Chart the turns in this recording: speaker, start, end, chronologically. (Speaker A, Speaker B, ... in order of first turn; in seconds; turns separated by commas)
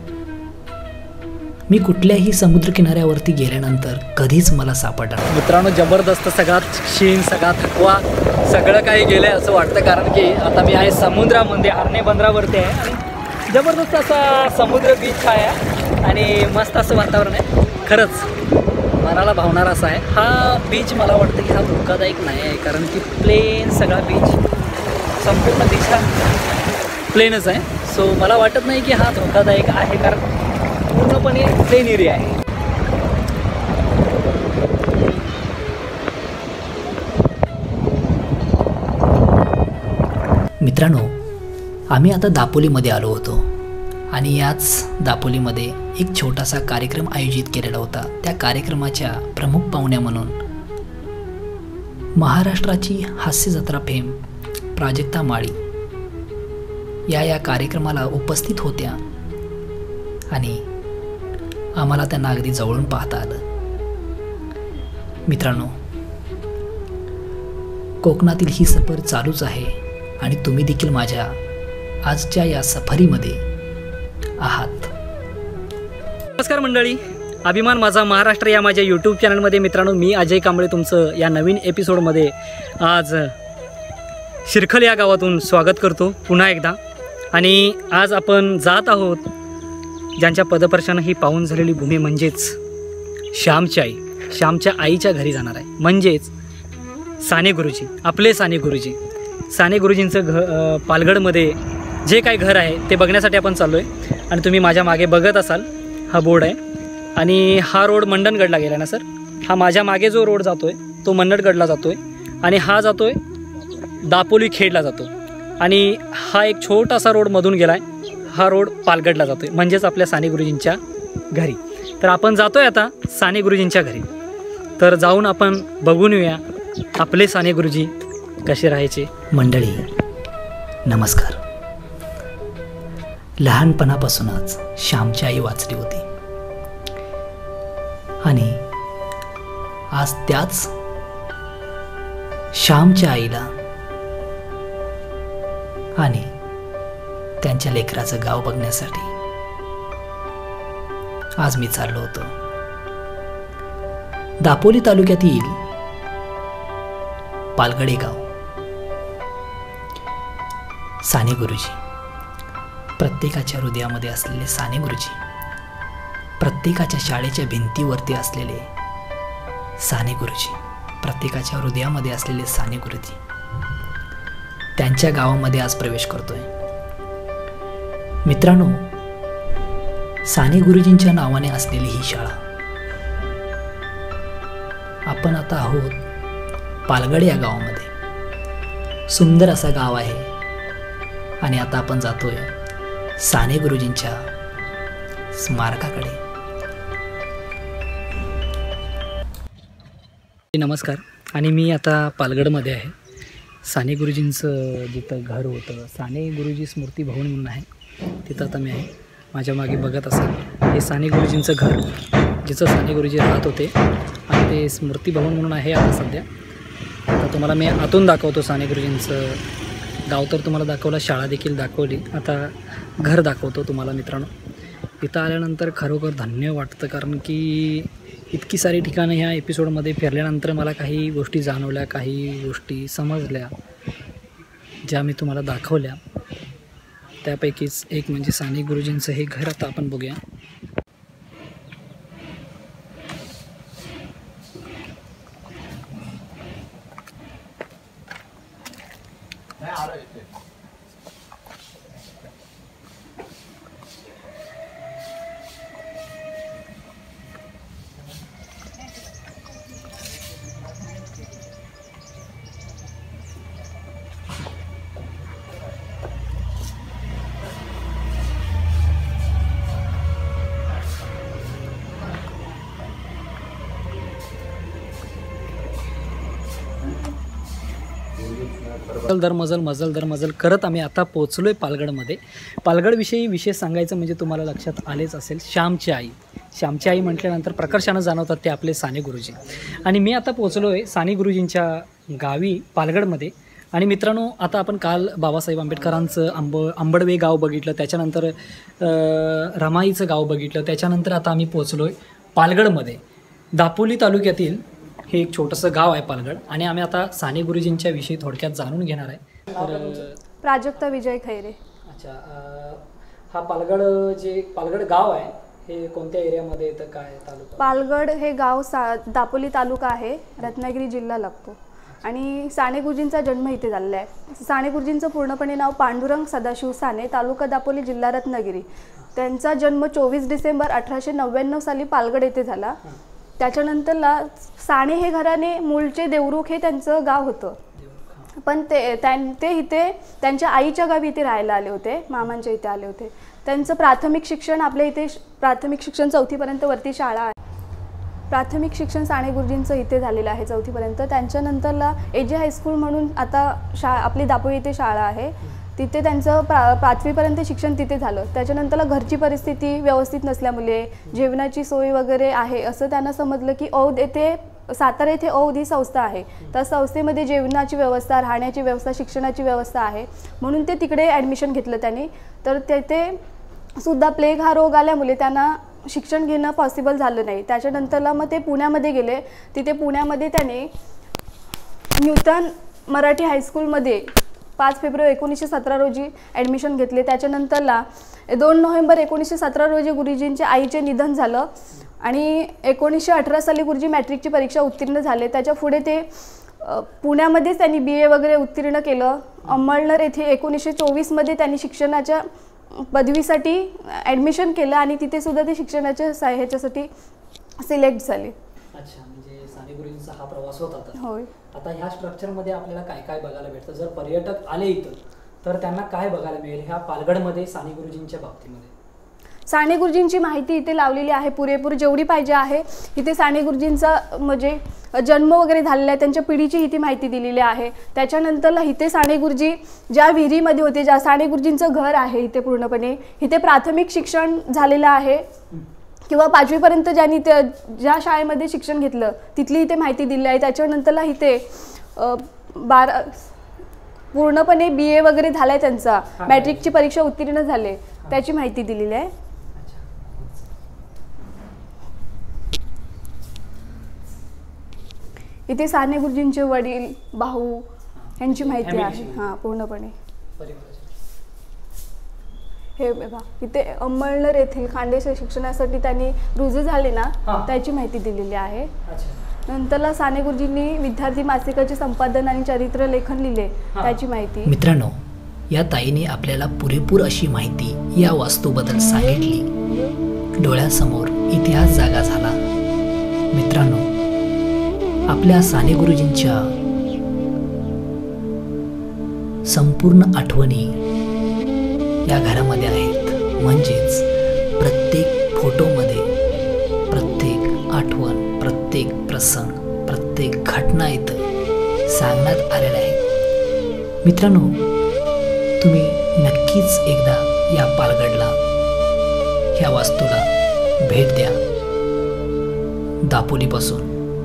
Speaker A: 1.7-5.3, Speaker B: 5.3-18.3, Speaker B: 19.0-24.4, Speaker B: 25.2-26.1, Speaker B: 27.1-30.2, Speaker B: 30.9-32.4, Speaker A: 40.6-41.2, Speaker A: 41.9-43.5, Speaker A: 44.1-50.4, Speaker A: 52.2-54.2, Speaker A: 54.7-55.6, Speaker A: 57.1-59.0, Speaker A: 60.3-60.6, Speaker A: 61.8-63.4, Speaker A: 65.3-65.8, Speaker A: 68.0-71.4, Speaker A: 72.0-73.4, Speaker A: 74.4-74.9, Speaker B: 76.4-83.3, Speaker B: 84.5-86.8, Speaker B: 87.3-89.3, Speaker B: 90.2-92.6, Speaker B: 93.3-96.3, Speaker B: 97.2-99.0, Speaker B: 99.5-106.6, Speaker B: 107.2-113.2, Speaker B: 114.0-120.8, Speaker B: 121.3-124.1, Speaker B: 124.8-126.4, Speaker B: 127.0-127.9, Speaker B: 128.4-129.1, Speaker A: 129.3-129.9, Speaker A: 130.8-131.4, Speaker A: 133.4-136.1, Speaker A: 138.2-138.6, Speaker A: 139.9-140.7, Speaker A: 142.5-143.5, Speaker A: 146.0-146.3, Speaker A: 147.4-149.1, Speaker A: 151.4-152.3, Speaker A: 154.4-155.6, Speaker A: 157.6-158.3, Speaker A: 161.0-161.8, Speaker A: 163.0-165.2, Speaker A: 166.4-168.7, Speaker A: 169.8-173.2, Speaker A: 174.8-176.5, Speaker A: 178.2-178.9, Speaker A: 180.3-182.4, Speaker A: 185.1-186.0, Speaker A: 186.9-187.9, Speaker A: 189.1-190.3, Speaker A: 191.4-192.5, Speaker A: 193.2-194.3, Speaker A: 195.3-196.2, Speaker B: 200.5-202.9, Speaker B: 203.7-207.7, Speaker B: 208.2-211.9, Speaker B: 212.4-213.7, Speaker B: 214.3-216.3, Speaker B: 217.1-219.4, Speaker B: 220.1-224.3, Speaker B: 225.0-233.5, Speaker B: 234.8-236.0, Speaker B: 237.2-240.2, Speaker B: 279.1-303.0, Speaker B: 303.5-310.2, Speaker C: 309.6-311.6, Speaker B: 311.9-317.7, Speaker C: 317.6-332.8, Speaker C: 333.4-337.6, Speaker B: 337.8-338.3, Speaker C: 338.4-347.3, Speaker C: 348.3-373.2, Speaker C: 373.8-380.7, Speaker C: 381.9-402.2, Speaker C: 402.8-406.9, Speaker C: 407.6-408.3, Speaker B: 408.7-411.0, Speaker C: 410.9-411.3, Speaker B: 411.5-418.7, Speaker C: 419.5-435.2, Speaker C: 436.1-443.3, Speaker C: 444.1-449.1, Speaker B: 446.2-446.8, Speaker B: 449.5-450.3, Speaker C: 455.5-457.6, Speaker B: 457.9-459.3, Speaker C: 458.2-459.9, Speaker B: 460.4-460.9, Speaker C: 462.8-468.7, Speaker B: 468.9-469.2, Speaker C: 469.5-474.5, Speaker B: 473.7-474.0, Speaker A: 474.4-479.5, Speaker A: 480.4-482.4, Speaker A: 483.3-483.9, Speaker A: 485.1-486.5, Speaker A: 489.4-490.8, Speaker A: 492.1-494.1, Speaker A: 494.6-496.1, Speaker A: 496.9-501.2, Speaker A: 501.9-503.0, Speaker A: 504.0-504.6, Speaker A: 505.6-508.4, Speaker A: 509.5-510.3, Speaker A: 510.8-511.4, Speaker A: 513.0-514.0